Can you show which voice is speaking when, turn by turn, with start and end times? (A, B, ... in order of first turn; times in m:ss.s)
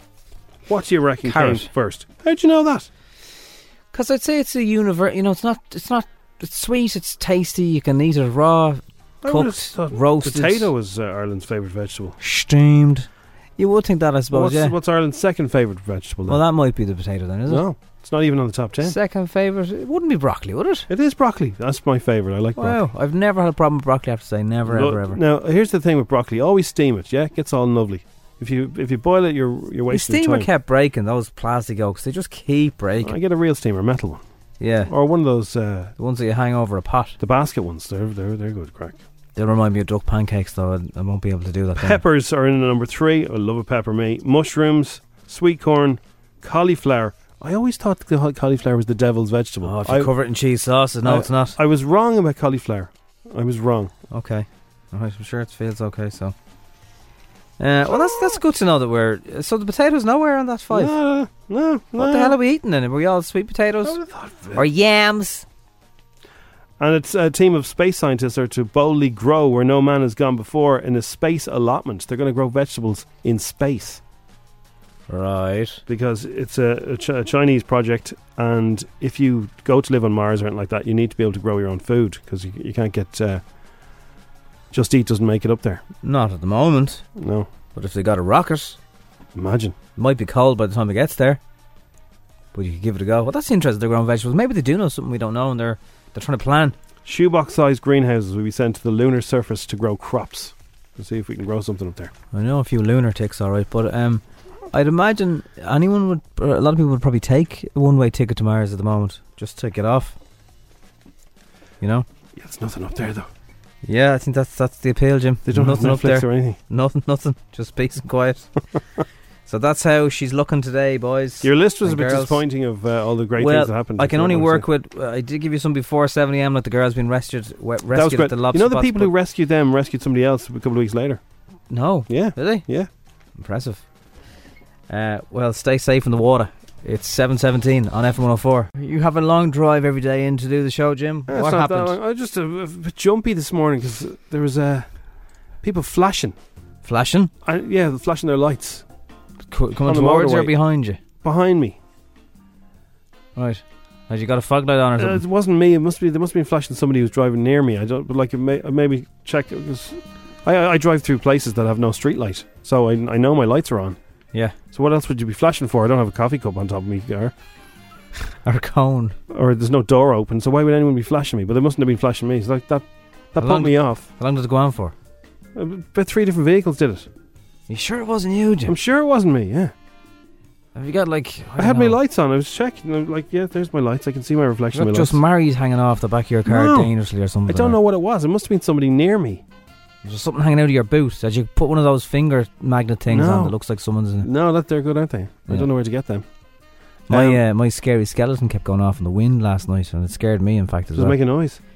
0:00.7-0:02.9 A
0:01.2-0:01.7 B
0:03.9-0:10.7 B
0:09.2-0:12.2 A
0:12.2-0:13.1 B
0:13.6-0:14.7 B
0:14.3-0:16.4 A
0:16.3-0:17.6 B
0:17.5-0:18.9 A
0:18.8-0:20.9 B
0:20.9-0:22.8 A
0:22.6-0:25.2 B
0:24.6-0:30.5 A
0:29.9-0:33.1 B
0:33.0-0:34.2 A
0:34.6-0:34.9 B
0:34.9-0:35.9 A
0:36.0-0:37.2 B
0:37.2-0:39.0 A
0:39.3-0:42.0 B
0:41.8-0:50.1 A
0:49.6-0:51.6 B
0:51.0-0:53.9 A
0:54.1-0:56.3 B
0:57.6-1:00.9 B
1:00.7-1:02.4 A
1:02.0-1:04.0 B
1:03.8-1:04.6 A
1:04.5-1:05.4 B
1:06.8-1:14.0 A
1:15.1-1:15.8 B
1:15.9-1:23.4 A
1:24.7-1:25.8 A
1:26.0-1:27.0 B
1:27.2-1:27.5 A
1:27.7-1:28.8 B
1:29.3-1:29.7 A
1:30.0-1:31.4 B
1:32.5-1:36.7 B
1:37.0-1:42.1 A
1:42.3-1:50.2 B
1:51.8-1:52.0 B
1:52.4-1:53.3 A
1:53.8-1:58.5 B
1:55.5-1:56.6 A
1:59.5-2:02.4 B
2:01.4-2:04.6 A
2:03.4-2:09.1 B
2:07.9-2:11.2 A
2:11.7-2:12.7 B
2:12.1-2:12.9 A
2:13.4-2:13.8 B
2:14.9-2:22.0 B
2:21.3-2:25.0 A
2:25.6-2:26.4 A
2:26.8-2:27.3 B
2:27.4-2:28.8 A
2:29.5-2:31.0 B
2:29.8-2:30.5 A
2:31.2-2:31.8 A
2:33.4-2:35.2 B
2:35.0-2:44.0 A
2:44.7-2:47.3 A
2:48.4-2:49.1 B
2:49.3-2:54.0 A
2:53.4-2:54.9 B
2:55.5-2:57.1 A
2:57.7-2:58.7 B
2:58.6-2:59.7 A
3:00.7-3:02.0 B
3:01.6-3:05.2 A
3:04.7-3:07.8 B
3:06.4-3:06.9 A
3:07.5-3:09.4 A
3:10.0-3:14.3 B
3:13.1-3:13.5 A
3:14.2-3:16.2 A
3:17.1-3:17.4 A
3:17.1-3:21.2 B
3:20.9-3:21.6 A